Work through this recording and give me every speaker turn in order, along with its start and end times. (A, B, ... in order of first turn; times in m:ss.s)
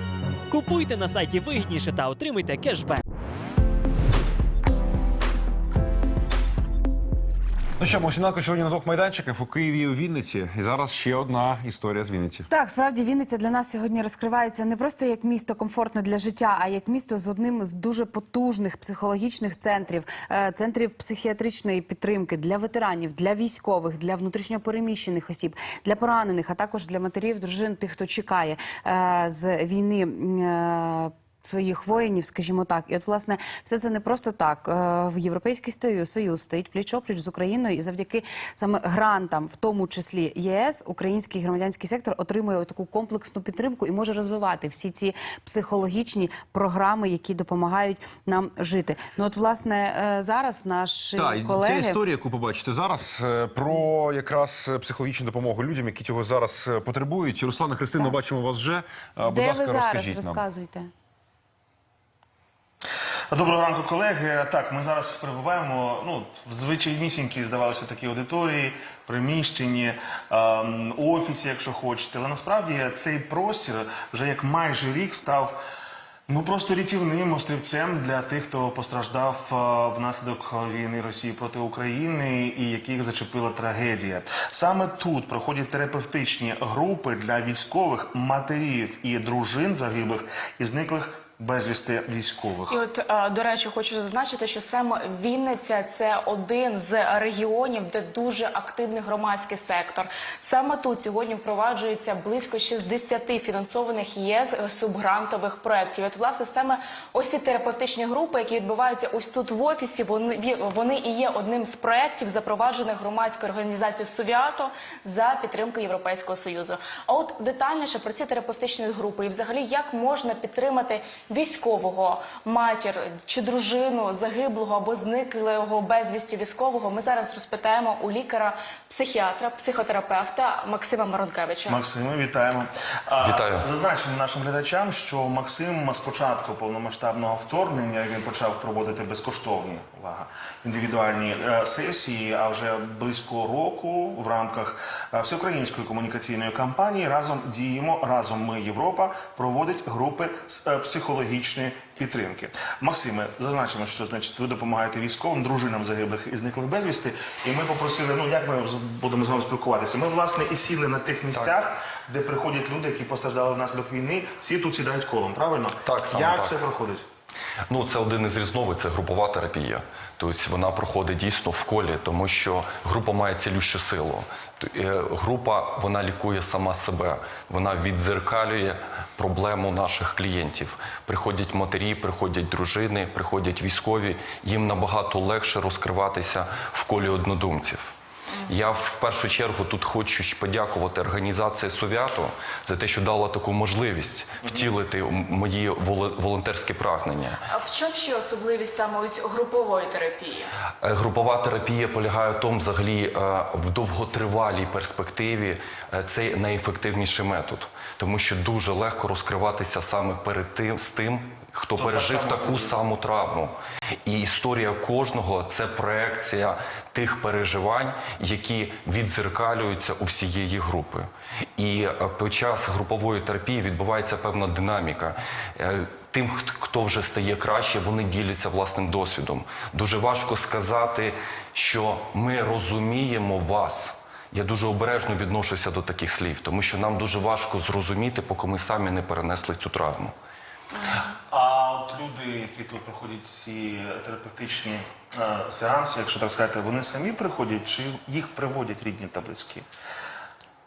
0:00.5-0:03.0 A
0:07.8-0:12.5 B
0:12.5-0:52.0 C
0:51.2-1:00.4 B
0:59.3-1:00.9 C
1:03.3-1:15.6 D
1:16.3-1:32.8 D
1:32.7-2:11.8 E
2:11.7-2:47.1 D
2:13.2-2:13.7 F
2:45.8-2:46.6 F
2:47.7-3:07.9 F
3:08.5-3:17.4 F
3:17.5-3:20.5 E
3:20.8-4:00.1 F
3:31.8-3:32.8 D
4:01.3-4:09.6 D